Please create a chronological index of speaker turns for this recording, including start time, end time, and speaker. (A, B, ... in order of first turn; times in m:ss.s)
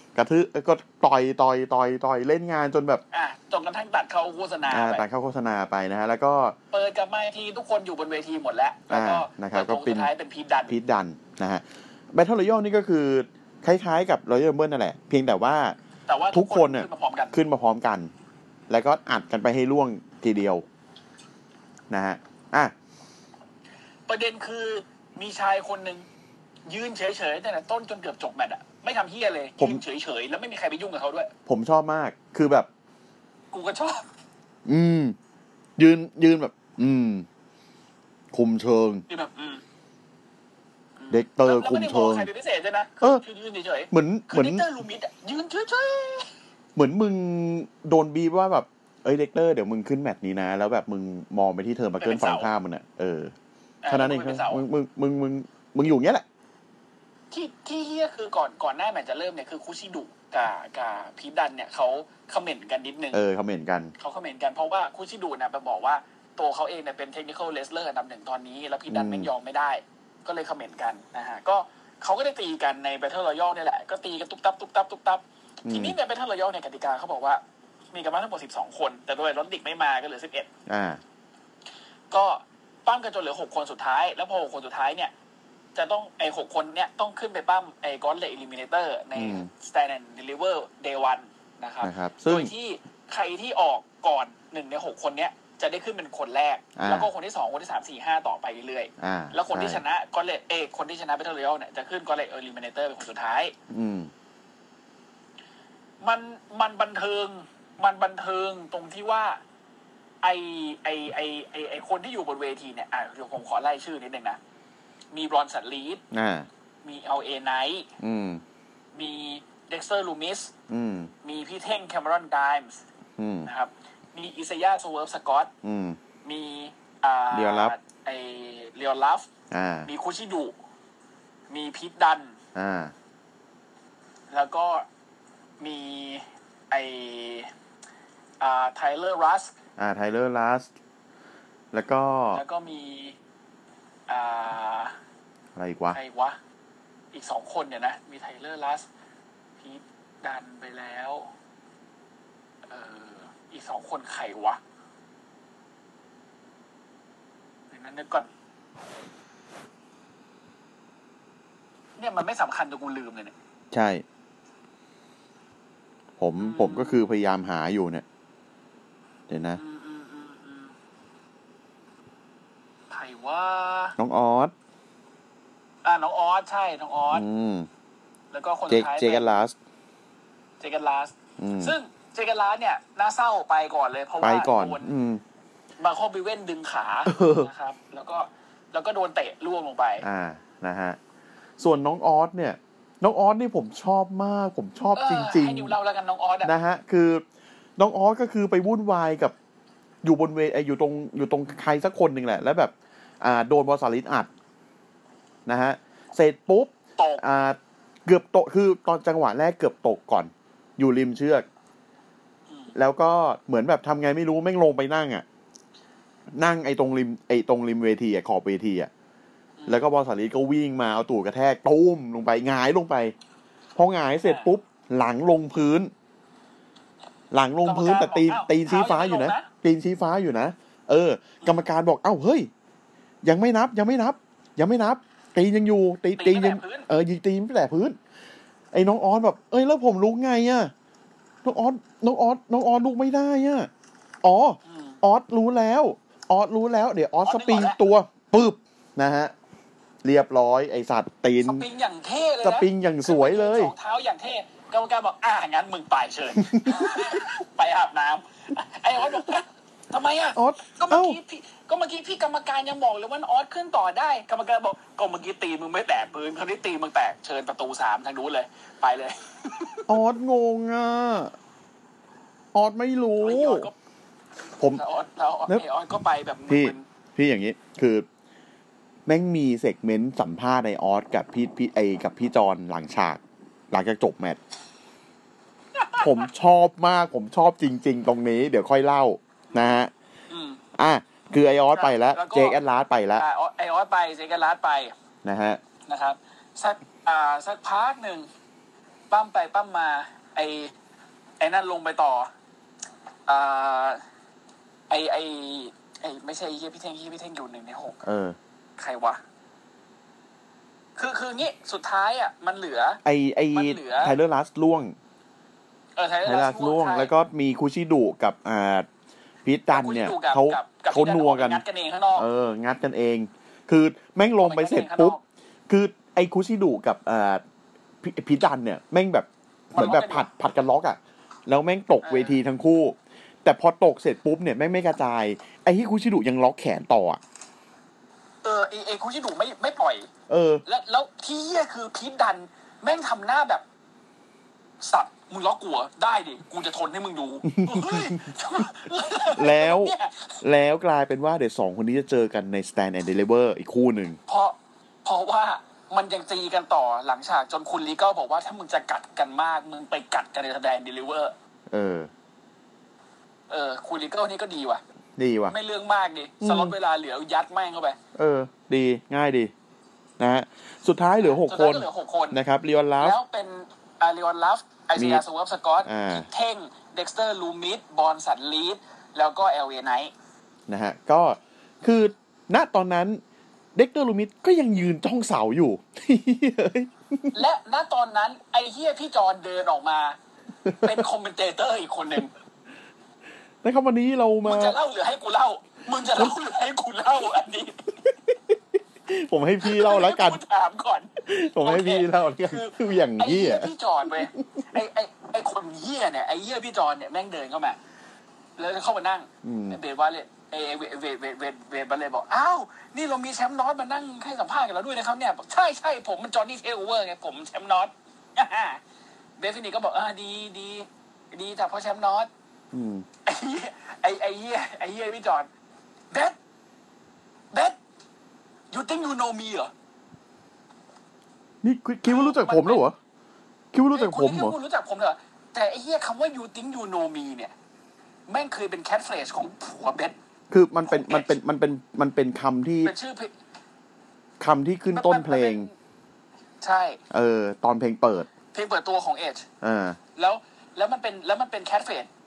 0:00.2-0:03.0 A
0:03.1-0:05.0 B
0:04.7-0:06.6 A
0:06.7-0:10.7 B
0:08.9-0:10.1 A
0:10.7-0:15.8 A
0:16.1-0:17.4 B
0:16.3-0:18.1 A
0:18.7-0:20.6 A
0:21.9-0:22.7 A
0:24.1-0:26.1 B
0:26.7-0:31.3 B
0:31.5-0:32.7 A
0:33.5-0:34.1 B
0:34.7-0:35.2 A
0:35.8-0:37.3 A
0:38.3-0:39.0 A
0:39.1-0:39.6 B
0:41.0-0:46.3 B
0:41.1-0:42.3 A
0:43.9-0:44.7 A
0:46.8-0:53.3 A
0:52.0-0:52.5 B
0:53.8-0:54.6 B
0:53.9-0:56.2 A
0:57.3-1:03.2 B
1:03.1-1:03.9 A
1:04.0-1:20.5 B
1:08.9-1:09.3 A
1:15.6-1:16.0 A
1:20.7-1:21.0 A
1:22.1-1:25.1 B
1:25.8-1:43.6 B
1:29.2-1:29.5 A
1:31.8-1:32.5 A
1:36.8-1:37.1 A
1:39.0-1:39.8 A
1:43.7-1:44.1 A
1:46.0-1:49.4 B
1:50.2-1:54.4 B
1:55.1-1:56.0 B
1:56.1-1:56.5 A
1:56.8-1:57.9 B
1:58.0-1:58.4 A
1:58.9-2:00.5 B
2:00.7-2:01.1 A
2:01.2-2:02.8 B
2:03.2-2:03.5 A
2:03.4-2:05.5 B
2:05.6-2:06.0 A
2:06.2-2:09.3 B
2:07.3-2:07.8 A
2:09.5-2:09.9 A
2:09.9-2:10.5 B
2:11.5-2:12.4 B
2:12.6-2:12.9 A
2:14.3-2:14.9 B
2:15.6-2:17.5 B
2:18.4-2:19.5 B
2:19.8-2:20.7 A
2:21.7-2:22.4 A
2:22.3-2:23.2 B
2:24.1-2:24.9 B
2:25.6-2:26.0 A
2:25.9-2:26.4 B
2:27.1-2:28.9 B
2:29.6-2:31.3 B
2:32.7-2:34.6 B
2:37.7-2:38.3 B
2:42.0-2:43.3 B
2:43.7-2:44.0 A
2:46.2-2:48.0 A
2:46.4-2:47.0 B
2:49.3-2:49.6 A
2:49.6-2:50.7 B
2:52.9-2:54.0 B
2:54.0-2:54.5 A
2:55.8-2:57.3 B
2:57.1-2:57.7 A
2:58.3-2:59.4 B
2:58.7-2:59.6 A
3:00.6-3:04.9 B
3:01.4-3:01.8 A
3:04.2-3:05.2 A
3:05.8-3:10.1 B
3:07.1-3:07.5 A
3:10.0-3:11.0 A
3:11.6-3:15.8 A
3:15.0-3:16.5 B
3:16.4-3:17.2 A
3:17.8-3:19.3 A
3:20.0-3:24.3 A
3:25.5-3:31.5 A
3:27.0-3:27.2 B
3:32.7-3:35.2 A
3:36.3-3:38.9 A
3:39.7-3:43.2 A
3:43.8-3:45.9 A
3:44.2-3:44.5 B
3:47.3-3:52.5 A
3:47.6-3:49.5 B
3:53.2-3:58.0 A
3:56.2-3:56.9 B
3:58.7-4:00.7 A
4:01.4-4:03.7 A
4:04.2-4:09.3 A
4:04.7-4:05.0 B
4:07.2-4:07.8 B
4:10.0-4:11.6 A
4:11.4-4:29.9 B
4:12.4-4:13.7 A
4:16.4-4:17.2 A
4:20.4-4:21.2 A
4:29.9-4:31.3 A
4:32.5-4:33.7 A
4:33.2-4:33.8 B
4:34.7-4:36.9 B
4:36.5-4:38.1 A
4:39.1-4:44.4 A
4:45.8-4:46.2 B
4:46.0-4:49.9 A
4:49.5-4:49.8 B
4:50.3-4:50.6 B
4:50.8-4:53.2 A
4:51.7-4:52.6 B
4:53.2-4:54.9 B
4:55.2-4:55.6 A
4:55.9-4:58.3 B
4:59.1-5:00.7 B
5:01.4-5:02.3 B
5:03.3-5:04.0 B
5:04.9-5:08.0 B
5:08.0-5:08.4 A
5:08.8-5:09.2 B
5:11.0-5:13.0 B
5:13.0-5:15.0 A
5:13.5-5:14.2 B
5:16.0-5:17.1 B
5:16.2-5:18.9 A
5:19.4-5:21.6 A
5:19.7-5:22.3 B
5:22.2-5:27.4 A
5:24.4-5:25.2 B
5:28.0-5:37.2 A
5:29.8-5:30.3 B
5:32.0-5:32.4 B
5:38.4-5:40.1 B
5:40.3-5:40.6 A
5:40.7-5:43.6 B
5:44.8-5:50.4 B
5:47.5-5:48.4 A
5:49.3-5:54.2 A
5:54.3-6:01.4 B
6:01.7-6:02.1 A
6:03.5-6:04.8 B
6:05.2-6:05.6 A
6:05.5-6:08.0 B
6:06.4-6:06.8 A
6:08.2-6:09.5 A
6:10.2-6:13.2 A
6:11.2-6:12.4 B
6:13.0-6:20.1 B
6:15.0-6:15.2 A
6:15.8-6:16.3 A
6:20.7-6:23.2 A
6:23.8-6:27.4 A
6:27.3-6:30.2 B
6:30.7-6:31.0 A
6:30.8-6:32.3 B
6:33.6-6:34.8 A
6:34.4-6:37.9 B
6:38.3-6:40.4 A
6:39.6-6:47.8 B
6:41.2-6:43.7 A
6:48.6-6:58.8 B
6:49.4-6:49.8 A
6:59.4-7:02.3 B
7:02.7-7:03.0 A
7:03.2-7:05.5 B
7:06.1-7:06.4 B
7:07.5-7:07.8 B
7:08.7-7:09.7 B
7:11.6-7:13.0 A
7:12.1-7:12.8 B
7:13.7-7:14.6 A
7:13.9-7:17.5 B
7:18.3-7:20.2 B
7:20.5-7:23.0 A
7:20.9-7:21.4 B
7:22.8-7:23.3 B
7:24.4-7:25.7 A
7:24.9-7:25.7 B
7:26.6-7:27.0 B
7:27.1-7:28.3 A
7:28.5-7:29.5 B
7:29.6-7:30.0 A
7:30.2-7:32.1 B